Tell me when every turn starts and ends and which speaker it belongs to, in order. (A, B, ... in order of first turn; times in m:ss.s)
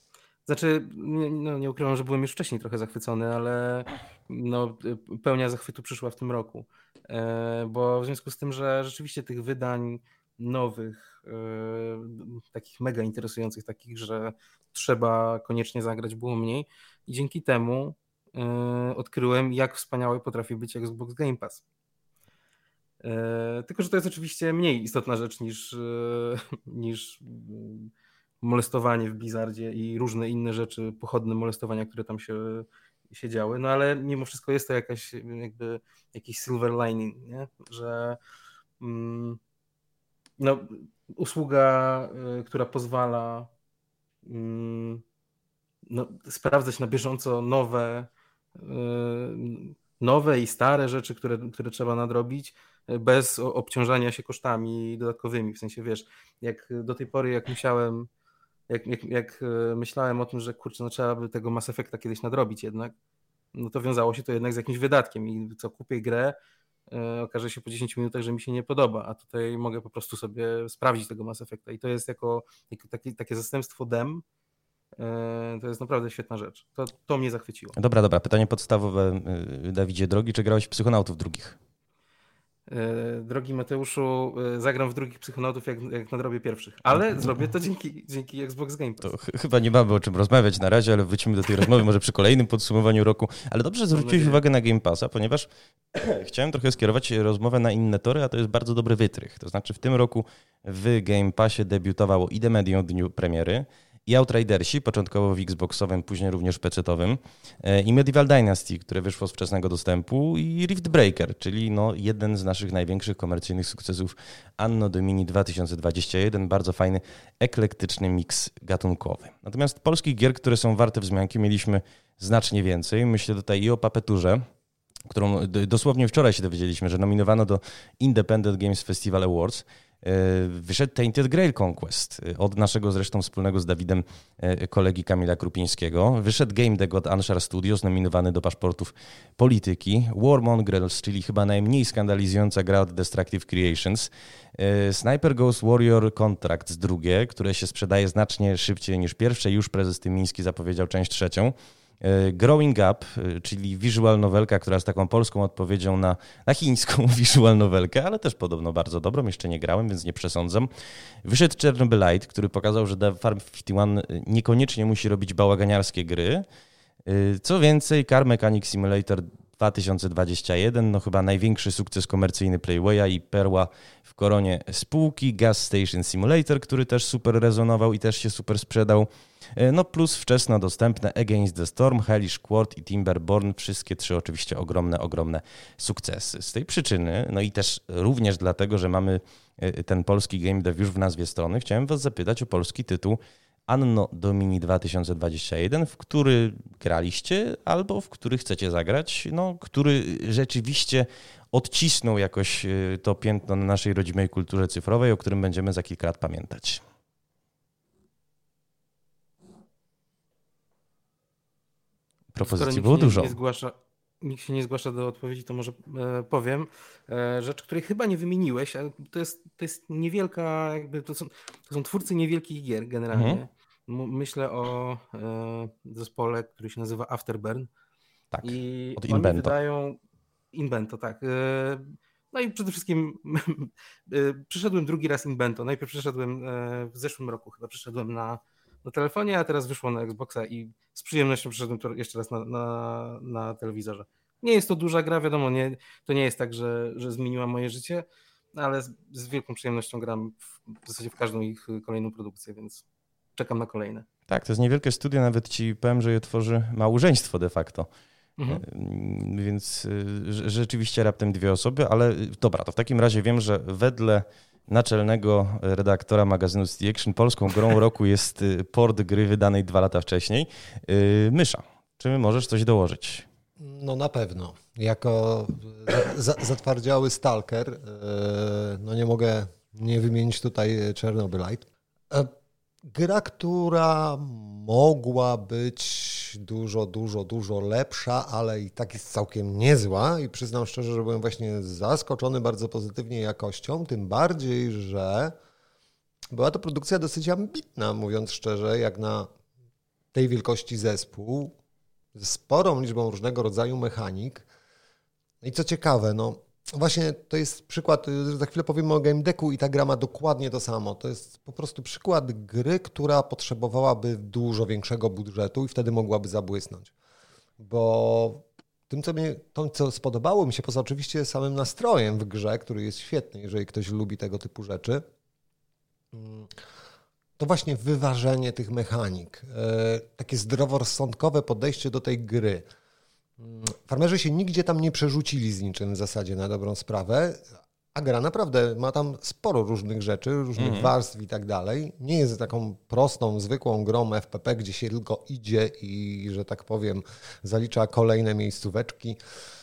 0:00.4-0:21.6 A
0:23.0-0:27.9 A
0:28.4-0:38.2 A
0:38.8-0:39.4 A
0:40.4-0:43.5 A
0:44.2-0:45.0 A
0:45.9-0:58.1 A
0:58.7-1:02.9 A
1:03.5-1:06.4 A
1:06.9-1:14.2 A
1:15.0-1:17.7 A
1:17.8-1:21.6 B
1:22.7-1:29.1 A
1:29.0-2:04.4 B
1:33.9-1:34.4 A
2:05.1-2:40.7 B
2:41.2-2:46.4 B
2:47.0-3:26.8 B
3:32.3-3:33.4 B
3:32.4-3:47.7 A
3:43.1-3:43.4 B
3:48.3-3:49.5 B
3:48.4-3:50.0 A
3:50.5-4:12.8 A
4:13.4-4:14.1 A
4:14.3-4:17.9 B
4:18.4-4:18.6 A
4:18.5-4:33.2 B
4:33.6-4:42.3 C
4:42.8-4:55.3 C
4:56.3-4:59.3 C
5:00.1-5:01.5 C
5:02.1-5:04.4 C
5:05.4-5:16.9 C
5:17.6-5:25.0 C
5:26.1-5:26.6 C
5:27.4-5:32.6 C
5:33.4-5:49.2 C
5:40.6-5:40.9 B